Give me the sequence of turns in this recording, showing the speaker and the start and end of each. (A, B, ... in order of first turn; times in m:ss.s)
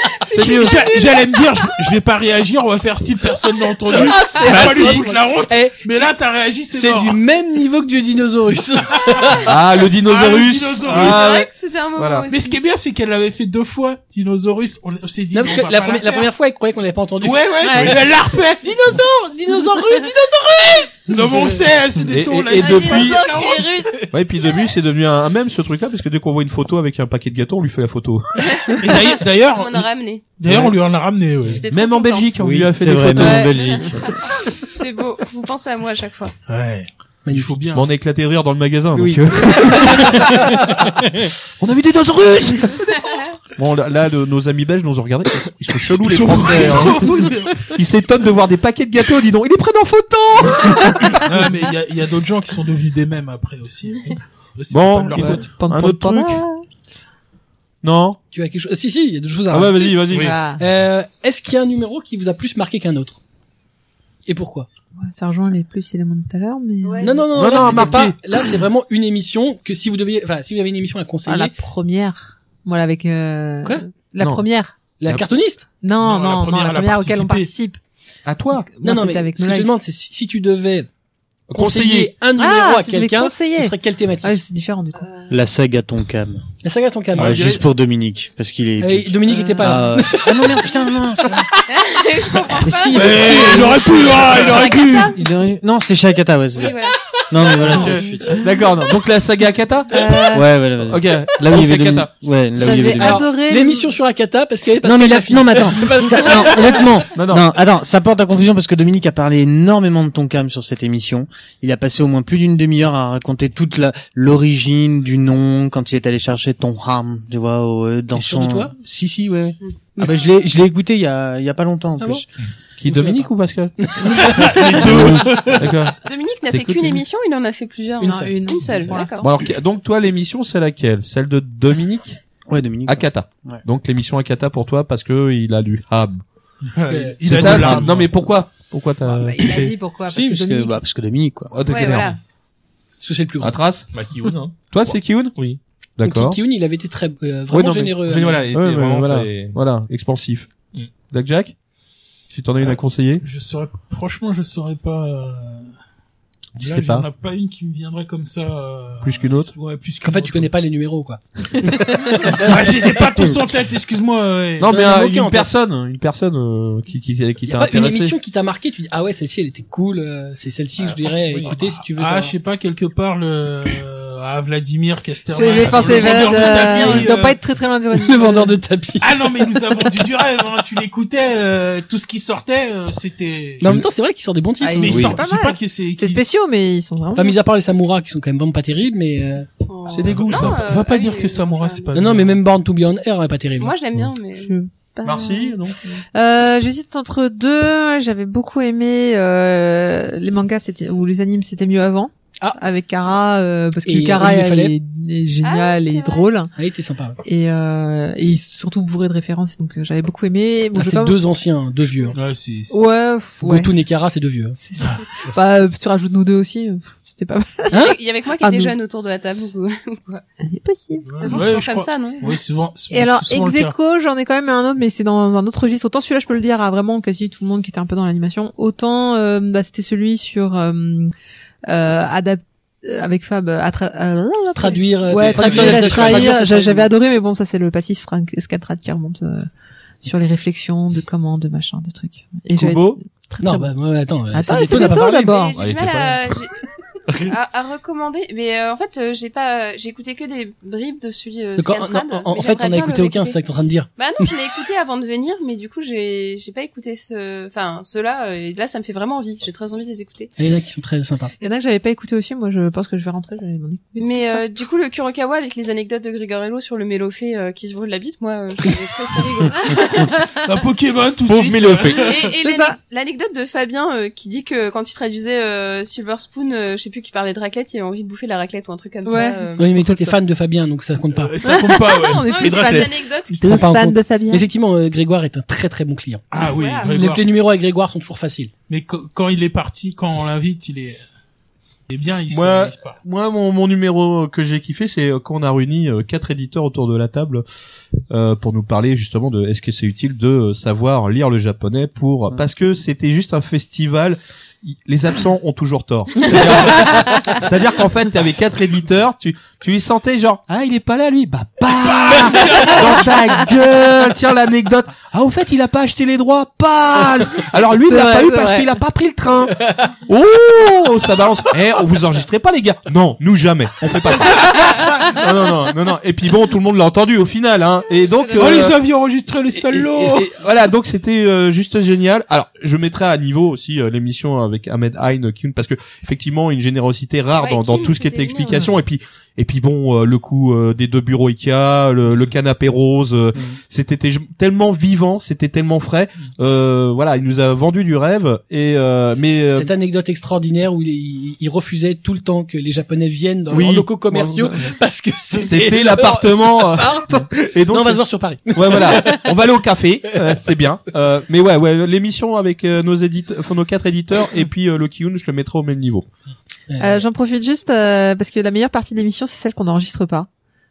0:00.2-0:01.3 A
0:00.3-0:00.7 B
0:00.3-0:07.2 C
0:03.9-0:05.8 D
0:04.2-0:05.0 E
0:04.3-0:04.7 A
0:06.7-0:09.5 D
0:09.4-0:12.2 B
0:10.0-0:11.3 C
0:10.9-0:12.6 A
0:12.3-0:16.3 C
0:15.3-0:18.1 D
0:17.2-0:18.7 C
0:17.6-0:17.9 E
0:18.6-0:21.6 D
0:21.1-0:23.7 C
0:22.1-0:23.5 B
0:22.5-0:24.0 A
0:24.1-0:28.5 B
0:28.4-0:30.2 A
0:28.7-0:31.6 C
0:30.5-0:30.7 B
0:31.4-0:32.4 A
0:31.7-0:33.5 B
0:32.4-0:34.1 F
0:33.1-0:36.3 A
0:36.5-0:37.9 C
0:37.2-0:37.6 D
0:37.7-0:40.7 B
0:39.0-0:39.2 F
0:41.6-0:51.3 B
0:42.9-0:43.3 A
0:46.0-0:47.7 C
0:51.1-0:55.5 C
0:54.7-0:56.4 B
0:55.1-0:56.6 E
0:57.8-0:58.2 B
0:58.3-1:00.0 D
0:59.5-1:00.4 B
1:00.1-1:00.6 E
1:00.6-1:03.2 D
1:04.3-1:04.7 D
1:05.0-1:07.2 E
1:06.8-1:07.9 A
1:07.0-1:11.5 D
1:07.3-1:08.2 B
1:11.2-1:14.7 E
1:14.2-1:14.4 B
1:15.0-1:15.6 D
1:15.8-1:17.8 E
1:16.0-1:17.5 C
1:18.2-1:18.7 B
1:18.6-1:19.7 E
1:18.8-1:20.9 D
1:21.5-1:24.4 D
1:21.5-1:22.1 B
1:22.4-1:25.0 E
1:25.3-1:26.4 F
1:26.6-1:27.6 D
1:27.2-1:27.6 G
1:27.2-1:31.4 F
1:28.8-1:31.4 D
1:29.3-1:29.7 E
1:31.7-1:35.1 A
1:32.6-1:33.8 F
1:32.6-1:34.4 D
1:32.9-1:35.1 C
1:34.4-1:35.1 E
1:35.0-1:38.5 F
1:36.6-1:38.0 A
1:37.6-1:42.1 B
1:39.9-1:40.4 E
1:40.3-1:43.3 F
1:42.6-1:43.9 E
1:42.8-1:46.9 D
1:44.8-2:02.2 F
1:47.1-1:47.5 B
1:58.1-1:58.7 D
2:02.0-2:02.2 D
2:02.8-2:06.0 B
2:02.9-2:05.2 D
2:04.2-2:05.7 C
2:06.0-2:09.2 A
2:06.5-2:07.0 B
2:08.0-2:08.3 D
2:08.0-2:09.3 E
2:09.2-2:12.2 B
2:12.5-2:13.6 F
2:12.8-2:16.2 B
2:16.7-2:18.1 C
2:16.8-2:17.8 D
2:17.2-2:19.7 B
2:17.5-2:17.8 F
2:19.0-2:20.8 E
2:20.1-2:21.6 F
2:21.5-2:22.2 B
2:21.7-2:22.2 A
2:23.0-2:23.6 D
2:23.4-2:23.9 B
2:23.9-2:25.6 G
2:24.7-2:25.4 B
2:26.0-2:26.4 B
2:26.0-2:28.5 D
2:27.5-2:28.0 B
2:28.0-2:29.6 G
2:28.5-2:30.5 B
2:31.1-2:31.6 B
2:32.3-2:33.2 B
2:32.6-2:35.7 C
2:36.6-2:37.0 B
2:36.6-2:40.5 C
2:39.0-2:39.5 B
2:40.0-2:42.6 D
2:42.2-2:44.7 C
2:44.6-2:48.2 B
2:44.7-2:45.5 D
2:47.5-2:52.3 D
2:50.8-2:51.6 G
2:51.9-2:57.4 C
2:55.3-2:58.6 E
2:55.4-2:57.2 A
2:57.9-2:59.1 D
2:59.0-3:03.8 C
3:03.6-3:05.1 D
3:04.6-3:07.4 E
3:04.7-3:06.2 C
3:07.1-3:09.5 D
3:09.7-3:11.9 A
3:09.9-3:10.6 B
3:10.1-3:12.4 C
3:11.9-3:13.7 D
3:13.6-3:15.5 A
3:14.4-3:14.7 E
3:15.0-3:15.8 B
3:16.1-3:26.5 E
3:23.8-3:24.7 D
3:25.4-3:26.3 A
3:26.5-3:27.2 D
3:27.2-3:31.2 E
3:30.7-3:32.1 D
3:32.1-3:32.8 C
3:32.7-3:33.7 E
3:33.4-3:34.6 D
3:34.7-3:38.7 E
3:37.7-3:40.2 A
3:40.4-3:41.5 E
3:41.2-3:43.7 C
3:41.2-3:42.4 A
3:42.9-3:51.1 E
3:51.6-3:59.5 E
3:54.6-3:56.9 D
3:55.5-3:56.2 B
4:00.0-4:03.7 E
4:02.6-4:03.0 B
4:03.4-4:05.3 D
4:04.3-4:05.5 E
4:04.9-4:06.6 A
4:05.6-4:06.3 B
4:07.2-4:13.4 A
4:11.6-4:14.3 D
4:14.0-4:20.3 A
4:20.4-4:21.3 D
4:21.4-4:24.4 E
4:24.0-4:30.3 A
4:29.7-4:30.1 E
4:30.4-4:32.2 C
4:31.3-4:32.1 B
4:32.0-4:40.2 A
4:32.4-4:32.8 E
4:39.0-4:39.4 E
4:39.6-4:41.5 D
4:41.1-4:43.0 C
4:41.4-4:43.6 A
4:42.3-4:42.8 E
4:43.3-4:46.2 D
4:43.4-4:44.4 E
4:46.3-4:47.2 C
4:46.5-4:46.9 A
4:46.8-4:48.5 D
4:48.7-4:51.0 C
4:51.9-4:53.0 C
4:52.3-4:57.4 B
4:58.1-5:28.8 B
5:11.8-5:13.1 C
5:17.9-5:18.7 E
5:28.3-5:28.7 A
5:28.4-5:30.3 C
5:29.5-5:49.7 B
5:37.4-5:38.7 A
5:49.2-5:59.4 D
5:53.5-5:54.7 B
5:55.4-6:06.1 B
6:06.7-6:07.0 D
6:06.8-6:10.3 E